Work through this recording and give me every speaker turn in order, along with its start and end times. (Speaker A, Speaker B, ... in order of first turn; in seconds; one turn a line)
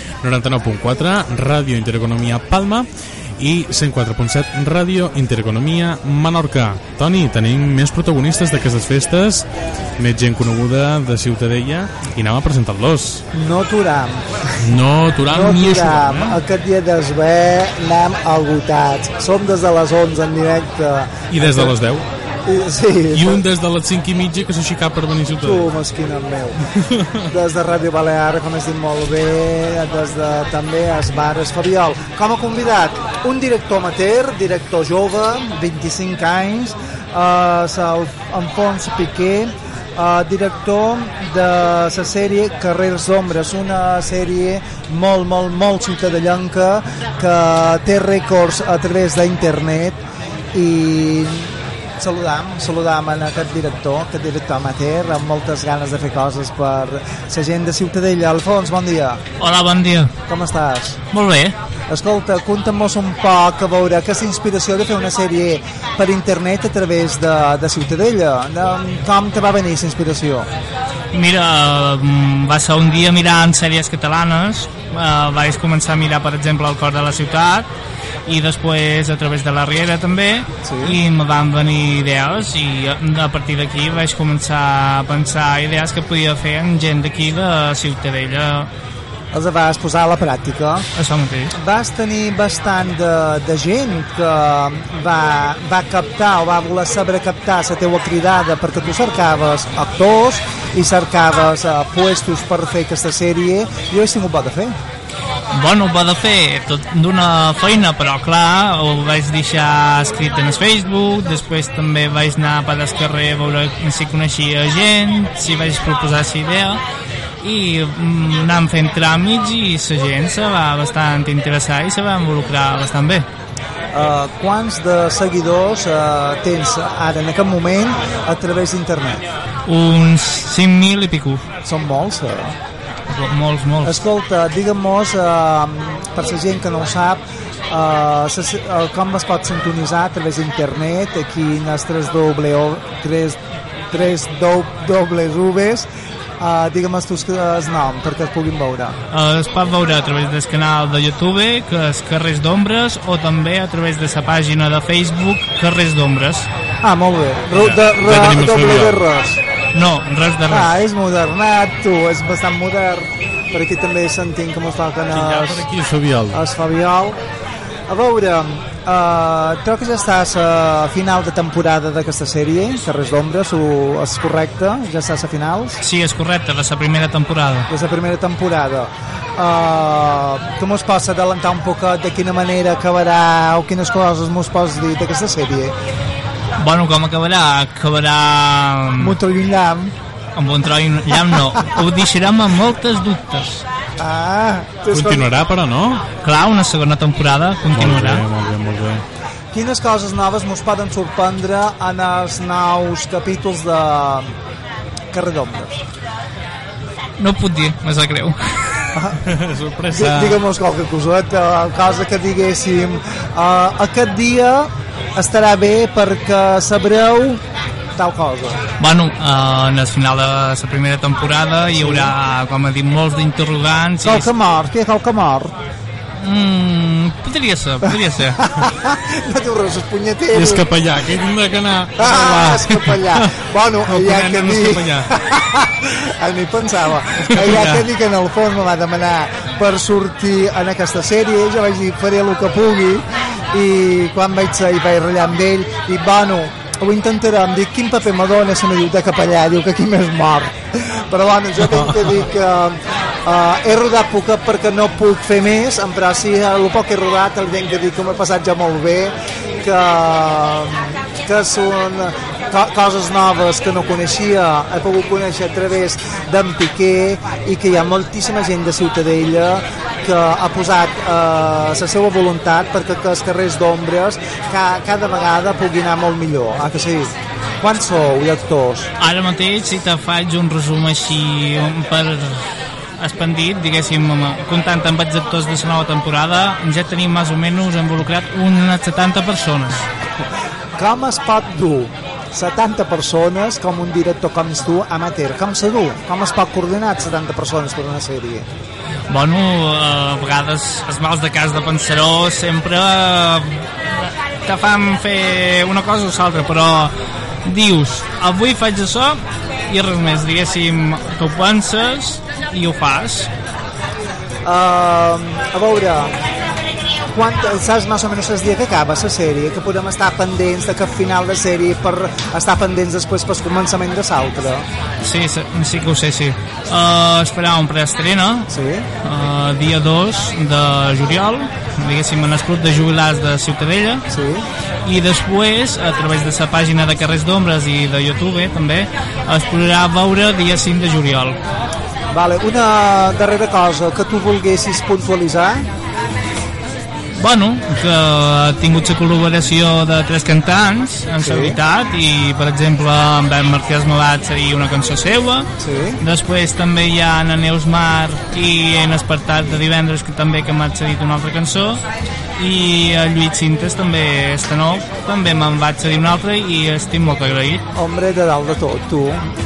Speaker A: 0.2-13.2
Speaker B: 13.3-14.7
Speaker A: 14.6-16.4
Speaker B: 15.3-21.7
Speaker A: 21.3-22.1
Speaker B: 22.5-23.4
Speaker A: 23.1-25.6
Speaker B: 25.4-26.6
Speaker A: 26.9-27.1
Speaker B: 27.2-50.0
Speaker B: 50.5-59.2
Speaker C: 59.4-60.1
Speaker B: 60.3-61.0
Speaker C: 61.1-61.6
Speaker B: 61.9-70.5
Speaker C: 71.1-77.7
Speaker C: 78.3-88.7
Speaker B: 80.6-81.0
Speaker B: 89.3-90.9
Speaker C: 91.0-91.5
Speaker B: 91.5-104.8
Speaker C: 105.5-116.8
Speaker C: 117.4-123.3
Speaker B: 123.9-129.2
Speaker C: 129.7-131.4
Speaker B: 131.6-132.6
Speaker C: 133.1-134.0
Speaker B: 133.8-143.4
Speaker B: 143.9-145.9
Speaker B: 146.4-149.0
Speaker C: 149.1-156.5
Speaker B: 156.8-159.4
Speaker A: 157.6-159.0
Speaker C: 159.7-160.8
Speaker B: 160.5-165.7
Speaker A: 165.2-166.4
Speaker B: 166.3-167.2
Speaker B: 167.9-175.8
Speaker C: 175.8-177.7
Speaker B: 177.7-185.8
Speaker C: 186.6-189.2
Speaker B: 189.0-189.9
Speaker C: 190.3-193.6
Speaker B: 191.3-191.7
Speaker B: 194.0-195.3
Speaker A: 194.9-196.0
Speaker C: 196.2-198.2
Speaker A: 197.7-199.0
Speaker B: 199.5-204.3
Speaker B: 205.1-205.8
Speaker C: 207.2-208.8
Speaker B: 208.9-209.2
Speaker A: 209.3-210.4
Speaker B: 209.9-217.4
Speaker B: 217.9-218.6
Speaker C: 218.8-224.3
Speaker B: 221.8-222.1
Speaker B: 224.0-225.5
Speaker C: 226.2-228.4
Speaker B: 228.4-230.7
Speaker A: 230.3-233.0
Speaker B: 232.0-278.9
Speaker A: 233.9-235.1
Speaker C: 279.0-289.9
Speaker B: 290.8-298.5
Speaker C: 299.1-313.3
Speaker B: 314.4-316.2
Speaker B: 317.1-324.6
Speaker C: 325.0-328.5
Speaker B: 328.5-328.9
Speaker C: 329.0-334.0
Speaker B: 334.1-334.5
Speaker C: 334.8-341.4
Speaker B: 342.1-345.7
Speaker C: 347.1-355.5
Speaker B: 351.2-351.6
Speaker B: 355.6-356.0
Speaker C: 356.0-361.8
Speaker C: 362.4-367.6
Speaker B: 367.8-369.2